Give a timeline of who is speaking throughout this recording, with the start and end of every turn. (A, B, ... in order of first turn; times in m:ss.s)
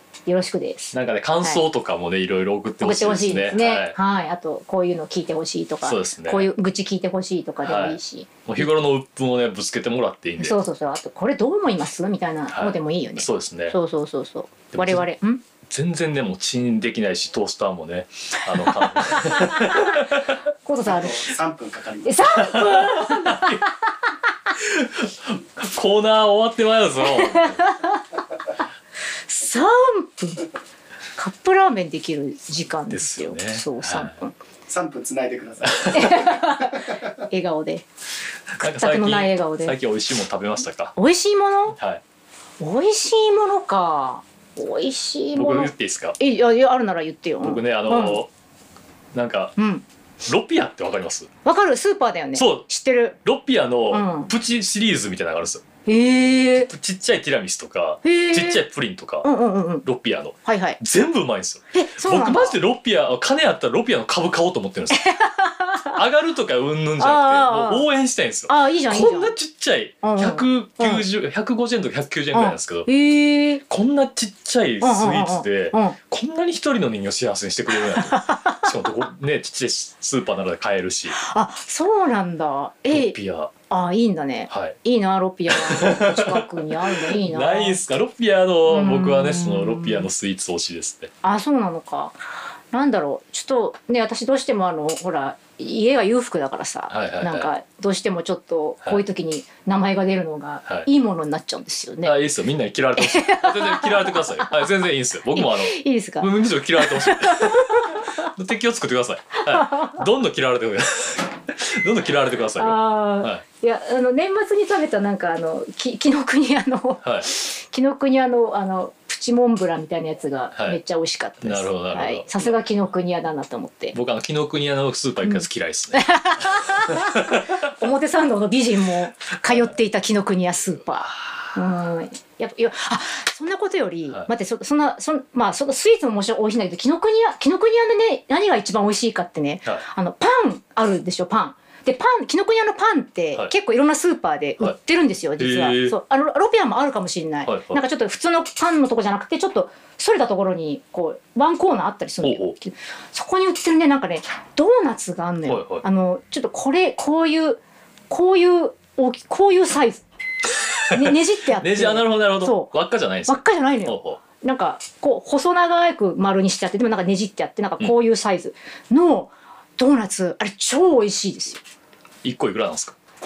0:00.3-0:01.6 A
0:00.9-0:04.0 B
0:02.8-0:08.7 A
0:05.8-0:06.5 B
0:07.6-0:10.6 B
0:10.4-0:15.4 A
0:12.5-0:13.8 B
0:14.7-0:15.0 B
0:15.7-0:20.4 B
0:18.6-0:20.1 A
0:20.6-0:21.3 A
0:20.8-0:22.2 C
0:22.0-0:24.1 A
0:22.2-0:23.6 B
0:24.6-0:27.8 B
0:27.0-0:28.0 A
0:29.3-0:30.4 A
0:31.2-0:34.4 A
0:32.9-0:34.1 B
0:34.7-0:37.1 C
0:35.6-0:36.0 B
0:35.9-0:37.8 A
0:38.5-0:41.0 B
0:38.6-0:39.8 A
0:41.0-0:41.8 A
0:41.7-0:42.0 B
0:42.6-0:48.2 A
0:45.4-0:46.2 B
0:47.4-0:48.3 B
0:49.1-0:49.6 B
0:49.6-0:49.8 A
0:50.3-0:51.3 B
0:51.4-0:53.2 A
0:52.4-0:52.7 B
0:53.2-0:55.6 B
0:53.9-0:54.3 A
0:55.9-0:56.7 A
0:56.7-0:59.3 B
0:58.0-0:58.6 A
0:59.2-0:59.9 A
0:59.8-1:05.1 B
1:00.4-1:00.8 A
1:01.7-1:02.6 A
1:04.9-1:06.0 A
1:05.9-1:12.9 B
1:07.0-1:07.9 A
1:08.5-1:09.3 A
1:10.0-1:11.0 A
1:12.3-1:13.6 A
1:13.7-1:21.2 B
1:14.8-1:16.0 A
1:17.8-1:18.7 A
1:21.2-1:23.2 A
1:22.9-1:23.5 B
1:23.7-1:27.8 A
1:24.5-1:24.8 B
1:25.5-1:31.1 B
1:28.7-1:30.1 A
1:31.2-1:42.2 A
1:36.9-1:37.5 B
1:42.0-1:53.4 B
1:43.0-1:44.7 A
1:45.3-1:48.2 A
1:49.5-1:50.0 A
1:52.6-2:04.0 A
1:57.0-1:57.3 B
2:01.4-2:02.6 B
2:03.9-2:07.7 B
2:05.2-2:40.0 A
2:11.0-2:11.6 B
2:25.4-2:26.0 B
2:27.5-2:27.8 B
2:32.2-2:32.6 B
2:35.5-2:35.8 B
2:40.6-2:44.2 B
2:40.9-2:42.7 A
2:43.3-2:51.6 A
2:52.2-2:53.0 B